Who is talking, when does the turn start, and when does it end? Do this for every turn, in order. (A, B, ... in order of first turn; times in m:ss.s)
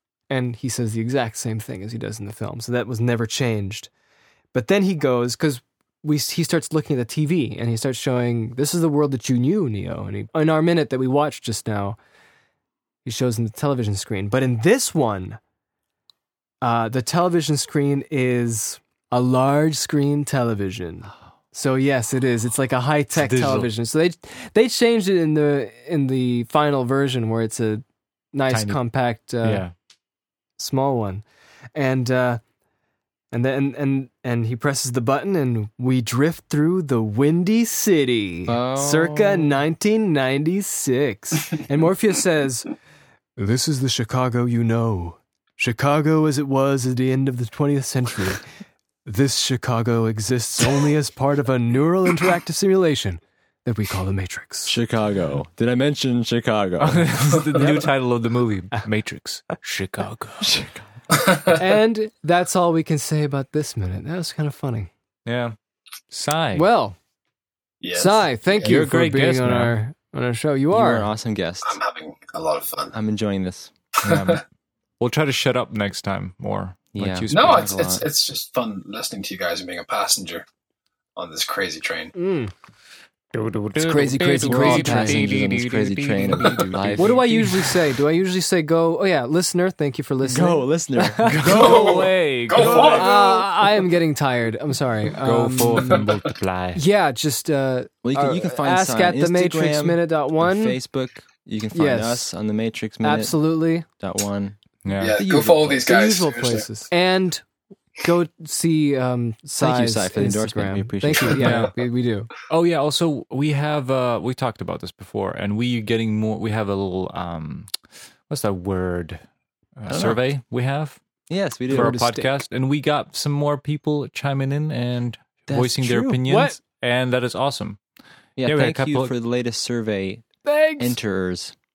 0:00.3-0:03.9 A
0:04.5-0:12.0 A
0:13.0-0:15.4 A
0:16.6-0:29.6 A
0:23.2-0:23.7 B
0:28.5-0:28.8 B
0:29.4-0:29.7 B
0:30.6-0:31.2 A
0:31.8-0:32.4 A
0:33.3-0:42.7 A
0:38.5-0:39.6 C
0:43.4-0:48.4 A
0:49.1-0:54.8 A
0:54.7-0:57.4 C
0:56.8-1:00.6 B
0:57.6-0:57.9 A
1:00.4-1:00.8 C
1:01.1-1:01.6 D
1:01.5-1:04.9 A
1:05.3-1:05.6 B
1:06.1-1:06.7 B
1:06.6-1:07.0 A
1:07.8-1:08.7 D
1:08.0-1:11.1 A
1:08.6-1:09.7 B
1:10.7-1:11.8 C
1:11.6-1:13.0 D
1:12.9-1:13.7 C
1:14.0-1:14.4 B
1:14.1-1:14.4 D
1:15.0-1:17.7 B
1:16.9-1:18.1 C
1:17.3-1:20.4 D
1:21.2-1:22.1 D
1:22.2-1:22.5 A
1:23.3-1:27.8 B
1:23.8-1:25.3 A
1:24.4-1:27.5 C
1:27.0-1:31.8 A
1:30.2-1:31.8 C
1:31.3-1:33.5 D
1:31.3-1:33.3 B
1:32.6-1:36.0 A
1:35.2-1:36.8 B
1:35.8-1:36.1 D
1:36.8-1:40.8 A
1:38.0-1:44.6 C
1:41.7-1:42.3 A
1:43.0-1:43.9 A
1:44.8-1:45.2 B
1:45.0-1:46.7 D
1:45.2-1:45.9 C
1:45.8-1:47.4 A
1:48.0-1:52.3 A
1:49.6-1:51.7 C
1:51.4-1:51.7 B
1:52.5-1:57.7 B
1:58.3-1:59.2 B
1:59.8-2:01.0 B
1:59.9-2:00.2 C
2:01.3-2:02.0 C
2:01.7-2:02.3 A
2:01.7-2:07.8 B
2:05.5-2:06.2 C
2:06.2-2:06.6 A
2:08.4-2:10.3 C
2:08.4-2:09.1 B
2:10.4-2:11.0 A
2:10.8-2:11.5 C